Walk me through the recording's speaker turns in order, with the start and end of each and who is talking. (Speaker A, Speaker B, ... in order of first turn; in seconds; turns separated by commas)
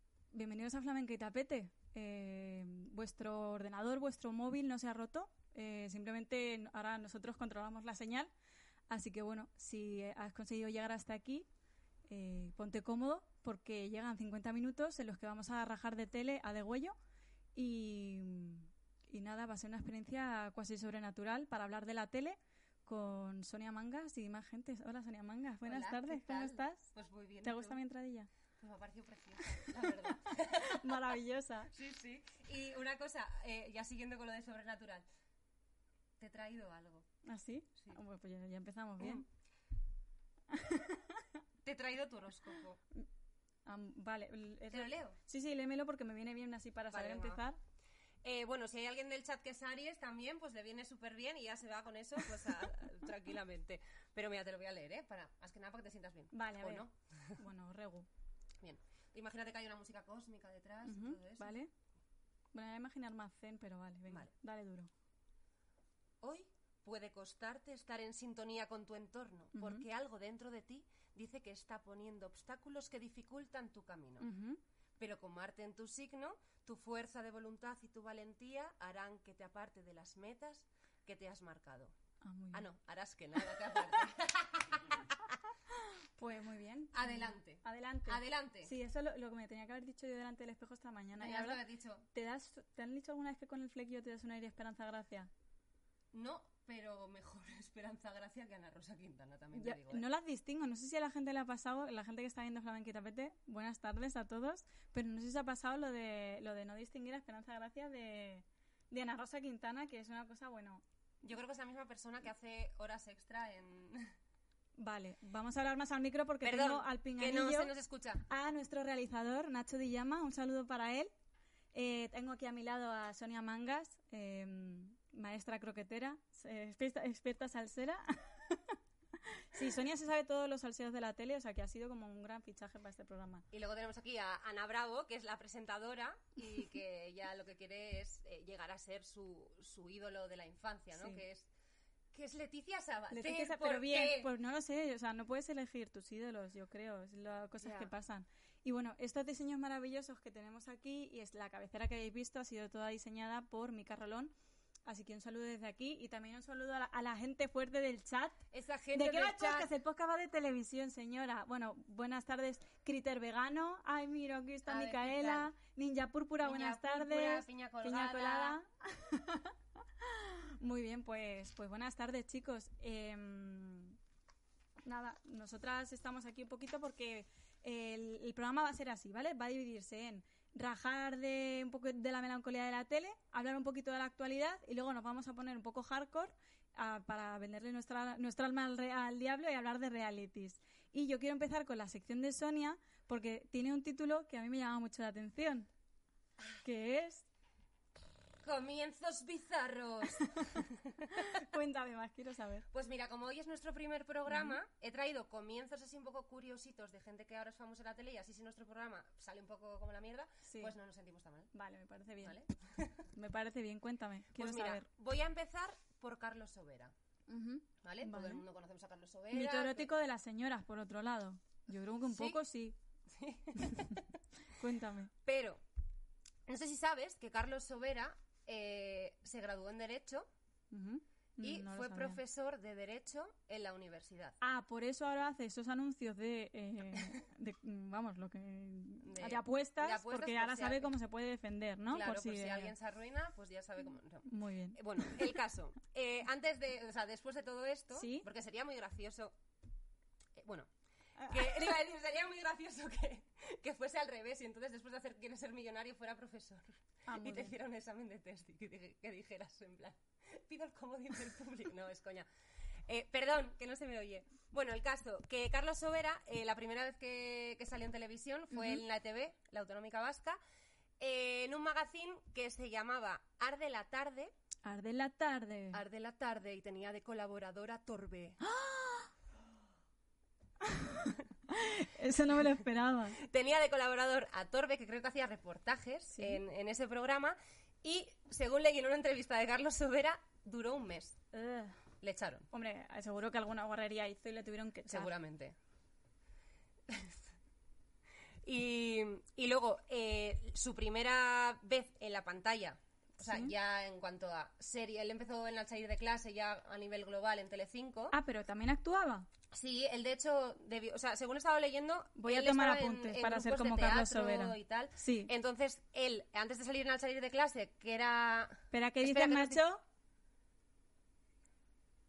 Speaker A: 0.3-8.3, Speaker A: 8.9-11.4, Speaker A: 12.1-16.9, Speaker A: 17.5-26.8, Speaker B: 25.6-27.8, Speaker A: 27.4-28.3, Speaker B: 28.6-30.8, Speaker A: 30.6-31.7, Speaker B: 31.7-35.0, Speaker B: 36.2-37.0, Speaker A: 37.2-39.2, Speaker A: 40.5-41.1, Speaker B: 41.6-42.8, Speaker A: 43.6-47.6, Speaker B: 44.7-45.2, Speaker B: 46.9-47.4, Speaker B: 48.2-57.4, Speaker A: 56.3-56.8, Speaker A: 57.4-58.1, Speaker B: 58.6-61.5, Speaker A: 60.9-61.7, Speaker A: 62.5-64.9, Speaker B: 66.2-74.2, Speaker A: 69.5-69.8, Speaker A: 74.2-74.6, Speaker B: 75.0-81.9, Speaker A: 82.2-82.6, Speaker B: 82.5-85.0, Speaker A: 86.2-91.6, Speaker B: 86.9-88.7, Speaker B: 91.2-92.0, Speaker A: 92.1-95.3, Speaker B: 96.1-100.0, Speaker A: 99.5-110.8, Speaker B: 111.2-114.1, Speaker A: 114.8-117.7, Speaker B: 116.4-118.2, Speaker A: 118.3-121.1, Speaker A: 121.7-128.8, Speaker A: 129.5-133.4, Speaker B: 133.5-141.5, Speaker B: 142.1-144.3, Speaker A: 143.1-154.3, Speaker B: 147.6-147.9, Speaker A: 154.8-158.4, Speaker B: 158.5-159.7, Speaker A: 158.9-173.9, Speaker B: 164.7-165.5, Speaker B: 166.4-168.6, Speaker A: 174.8-195.7, Speaker A: 196.6-197.2, Speaker B: 198.4-200.8, Speaker A: 200.1-200.5, Speaker A: 201.1-202.6, Speaker B: 202.7-211.5, Speaker A: 204.3-204.6, Speaker A: 211.5-212.4, Speaker B: 212.2-213.0, Speaker A: 213.1-214.8, Speaker B: 214.4-216.9, Speaker A: 217.3-218.4, Speaker B: 217.8-219.9, Speaker A: 219.3-222.7, Speaker B: 222.1-222.4, Speaker B: 223.1-223.8, Speaker A: 223.6-224.0, Speaker A: 224.6-225.1, Speaker B: 225.2-225.6, Speaker B: 226.5-230.3, Speaker A: 230.7-232.2, Speaker B: 231.4-234.4, Speaker A: 234.4-242.7, Speaker B: 239.0-240.9, Speaker B: 241.9-249.3, Speaker A: 244.2-244.8, Speaker A: 247.9-248.2, Speaker B: 250.4-250.7, Speaker B: 251.3-262.3, Speaker A: 257.1-257.5, Speaker B: 262.9-270.4, Speaker A: 268.5-268.8, Speaker B: 271.0-274.3, Speaker A: 274.6-275.8, Speaker B: 275.7-278.4, Speaker A: 278.4-279.1, Speaker A: 280.6-283.2, Speaker B: 283.2-291.1, Speaker A: 286.1-286.4, Speaker A: 291.3-291.8, Speaker B: 292.0-292.5, Speaker A: 292.5-295.1, Speaker B: 294.9-295.5, Speaker B: 298.4-308.1, Speaker A: 303.2-303.5, Speaker A: 308.1-309.3, Speaker B: 309.5-319.6, Speaker A: 312.2-315.3, Speaker A: 318.7-319.8